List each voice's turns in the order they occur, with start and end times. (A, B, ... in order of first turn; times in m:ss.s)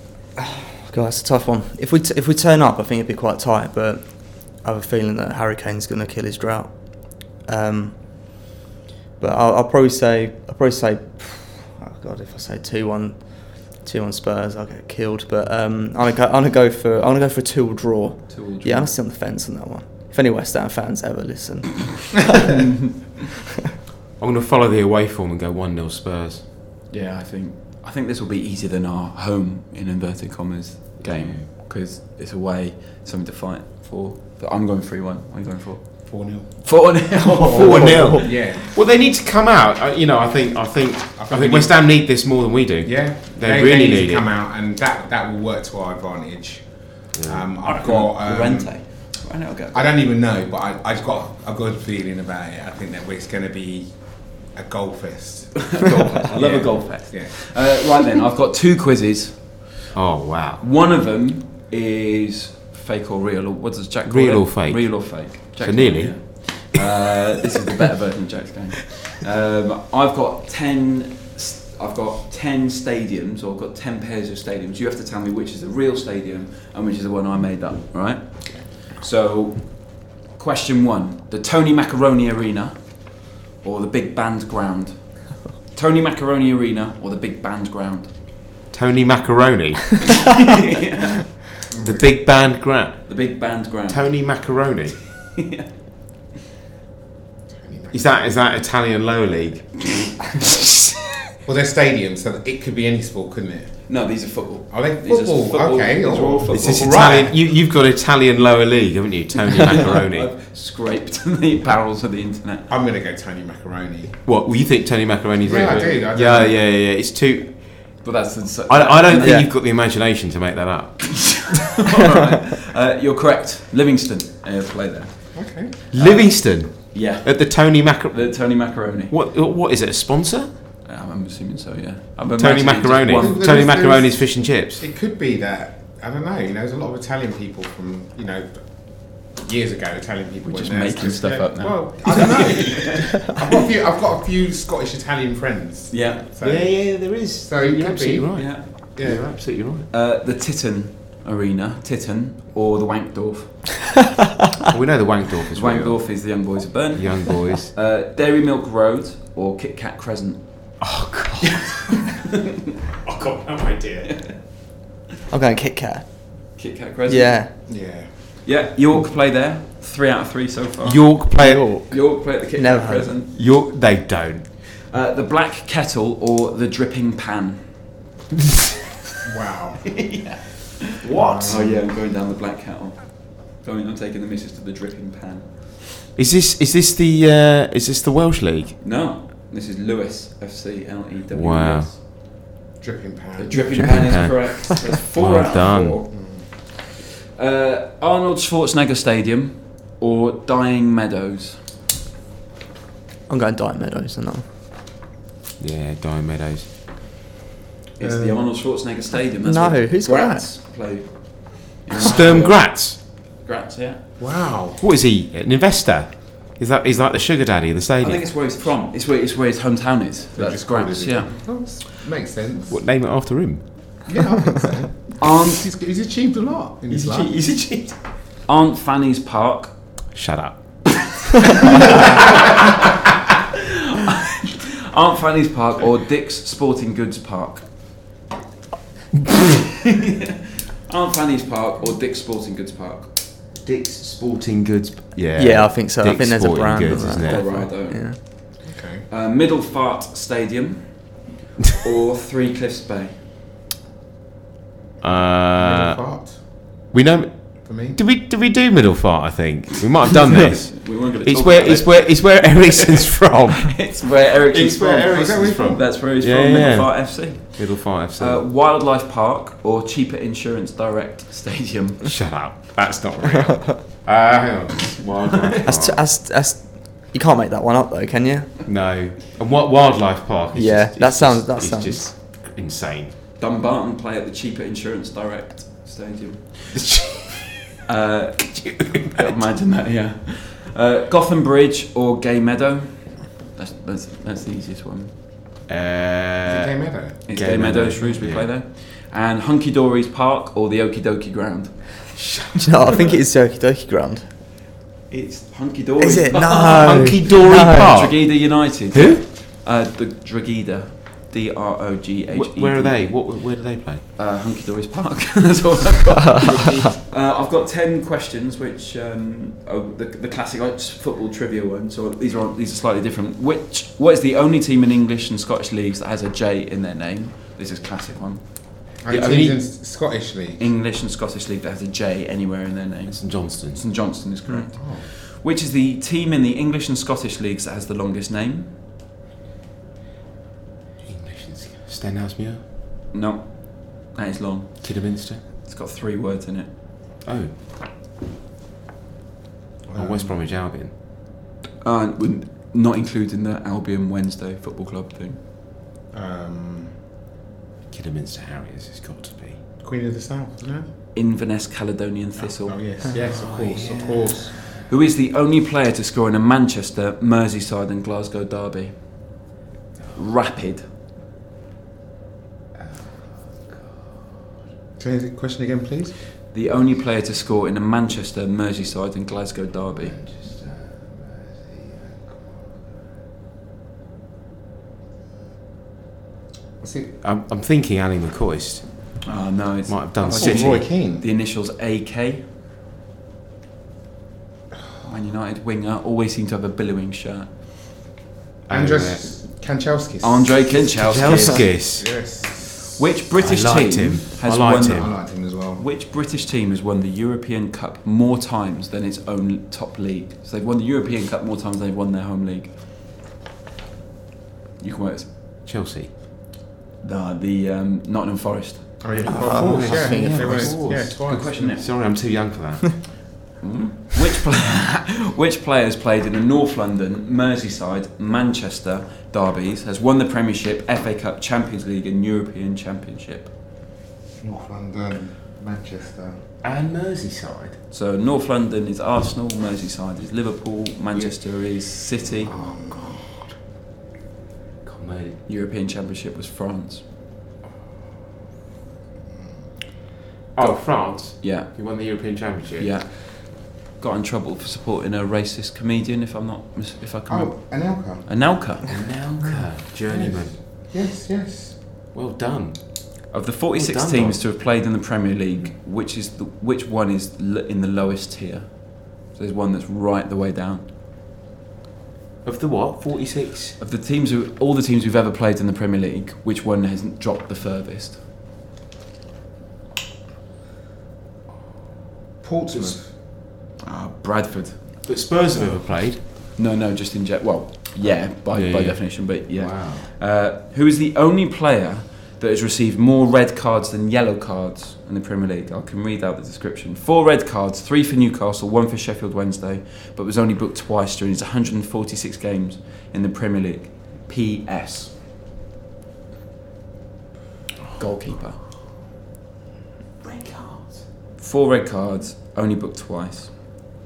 0:00.4-0:08.4 A
0:09.2-0:22.4 A
0:18.3-0:18.9 B
0:22.6-0:22.9 B
0:24.2-0:26.4 C
0:26.9-0:38.4 B
0:31.0-0:31.4 C
0:36.0-0:38.7 D
0:37.4-0:44.3 C
0:41.2-0:41.8 D
0:42.8-0:49.0 D
0:47.1-0:47.5 C
0:47.6-0:49.9 B
0:49.7-0:57.4 D
0:55.6-0:59.8 B
0:59.9-1:00.6 C
1:00.6-1:28.1 B
1:04.1-1:06.6 C
1:28.7-1:30.2 C
1:30.8-1:31.3 B
1:31.7-1:32.0 D
1:31.8-1:33.3 C
1:33.1-1:34.5 B
1:33.9-1:35.0 C
1:35.4-1:35.7 B
1:37.5-1:38.4 D
1:37.9-1:41.0 C
1:41.4-1:43.9 D
1:43.9-1:47.1 B
1:44.7-1:47.3 D
1:46.5-1:50.3 C
1:49.7-1:52.7 B
1:52.7-1:54.2 D
1:54.2-1:58.0 C
1:55.4-1:56.6 D
1:58.0-1:59.5 B
1:58.7-2:01.6 C
1:59.2-1:59.5 A
2:01.1-2:09.1 B
2:05.3-2:05.7 D
2:05.9-2:10.5 C
2:10.8-2:13.6 B
2:12.4-2:14.8 C
2:13.1-2:29.3 D
2:20.4-2:23.4 B
2:25.9-2:26.3 B
2:26.4-2:29.9 C
2:28.3-2:28.9 B
2:29.6-2:33.9 B
2:34.7-2:36.2 C
2:35.5-2:40.7 B
2:36.9-2:37.7 C
2:40.8-2:41.8 C
2:41.5-2:42.2 B
2:43.1-2:44.1 C
2:44.1-2:44.4 B
2:45.3-2:46.3 A
2:46.6-2:47.6 B
2:47.1-2:47.5 A
2:47.7-2:48.1 D
2:48.4-2:53.3 B
2:50.8-2:51.7 C
2:51.4-2:53.1 A
2:53.3-2:54.5 C
2:54.7-2:57.8 B
2:59.2-3:00.0 D
3:00.0-3:05.8 B
3:01.1-3:01.8 D
3:01.5-3:01.7 C
3:06.2-3:08.8 C
3:08.8-3:12.0 B
3:11.3-3:11.9 C
3:12.8-3:14.2 D
3:13.4-3:21.6 B
3:13.7-3:16.0 C
3:16.1-3:16.5 D
3:23.3-3:24.4 A
3:25.6-3:26.7 C
3:28.0-3:34.1 B
3:28.0-3:28.4 D
3:29.4-3:30.5 A
3:32.0-3:33.0 C
3:32.0-3:32.3 D
3:34.2-3:34.8 D
3:34.8-3:38.3 C
3:38.0-3:41.9 B
3:40.4-3:42.8 D
3:42.7-3:44.1 C
3:44.1-3:47.4 D
3:45.2-3:45.6 B
3:46.9-3:48.0 C
3:48.4-3:49.8 B
3:50.1-3:51.2 C
3:51.7-3:52.0 C
3:54.0-3:57.9 B
4:00.9-4:03.2 B
4:03.6-4:07.8 C
4:05.4-4:08.2 A
4:07.0-4:11.2 B
4:08.6-4:09.1 D
4:11.7-4:13.2 B
4:15.0-4:16.0 C
4:15.6-4:16.4 D
4:16.9-4:24.0 C
4:17.6-4:18.0 D
4:20.3-4:32.2 B
4:24.5-4:28.4 C
4:25.1-4:25.8 D
4:32.0-4:36.0 C
4:33.5-4:33.8 A
4:35.2-4:35.6 B
4:35.6-4:38.5 A
4:38.7-4:43.2 C
4:40.5-4:42.1 A
4:43.4-4:46.8 B
4:46.8-4:47.5 C
4:47.7-4:55.1 B
4:48.6-4:49.4 C
4:55.7-4:58.5 C
4:56.5-4:57.4 D
4:57.3-5:02.4 B
5:02.6-5:04.3 A
5:05.1-5:13.3 B
5:06.0-5:07.9 A
5:06.5-5:09.2 C
5:12.3-5:14.0 C
5:14.2-5:28.9 B
5:29.0-5:30.6 D
5:29.1-5:29.6 C
5:30.6-5:38.8 B
5:33.1-5:33.8 C
5:34.8-5:35.1 D
5:41.0-5:42.6 C
5:43.1-5:46.7 B
5:44.8-5:45.4 C
5:47.2-5:47.6 C
5:49.9-5:50.3 D
5:50.0-5:50.9 C
5:51.8-5:55.4 B
5:56.1-5:57.0 D
5:57.9-5:59.6 C
5:59.8-6:00.9 D
6:01.1-6:03.2 B
6:02.4-6:04.5 D
6:03.1-6:04.5 C
6:04.6-6:09.4 B
6:10.1-6:10.8 B
6:12.8-6:14.3 C
6:15.0-6:16.2 D
6:16.5-6:20.2 B
6:20.1-6:22.5 C
6:26.8-6:27.1 D
6:27.2-6:29.3 C
6:29.2-6:32.4 B
6:29.9-6:30.8 C
6:30.3-6:31.2 D
6:35.0-6:37.5 B
6:38.7-6:39.4 C
6:38.7-6:43.0 D
6:40.2-6:41.8 B
6:41.0-6:42.2 C
6:43.0-6:52.8 B
6:43.4-6:45.1 C
6:44.8-6:45.8 D
6:54.8-6:55.3 B
6:55.6-6:56.1 C
6:57.0-6:59.4 B
6:59.0-7:01.8 D
6:59.2-7:03.2 C
6:59.2-7:00.7 A
7:00.5-7:02.0 B
7:03.6-7:13.5 B
7:14.4-7:16.4 D
7:16.6-7:17.8 C
7:17.9-7:22.5 B
7:22.4-7:23.3 D
7:22.5-7:23.4 C
7:24.8-7:25.4 C
7:25.5-7:27.0 B
7:30.6-7:32.9 C
7:30.6-7:32.3 B
7:32.8-7:39.3 B
7:37.3-7:38.3 D
7:38.9-7:40.9 C
7:40.1-7:41.8 D
7:42.1-7:44.4 C
7:43.3-7:50.8 B
7:52.4-7:53.8 C
7:53.8-7:58.2 B
8:02.4-8:03.2 D
8:03.8-8:04.8 B
8:05.0-8:06.2 C
8:06.6-8:25.2 B
8:08.5-8:10.1 C
8:28.0-8:28.6 B
8:30.2-8:31.0 C
8:31.4-8:33.6 B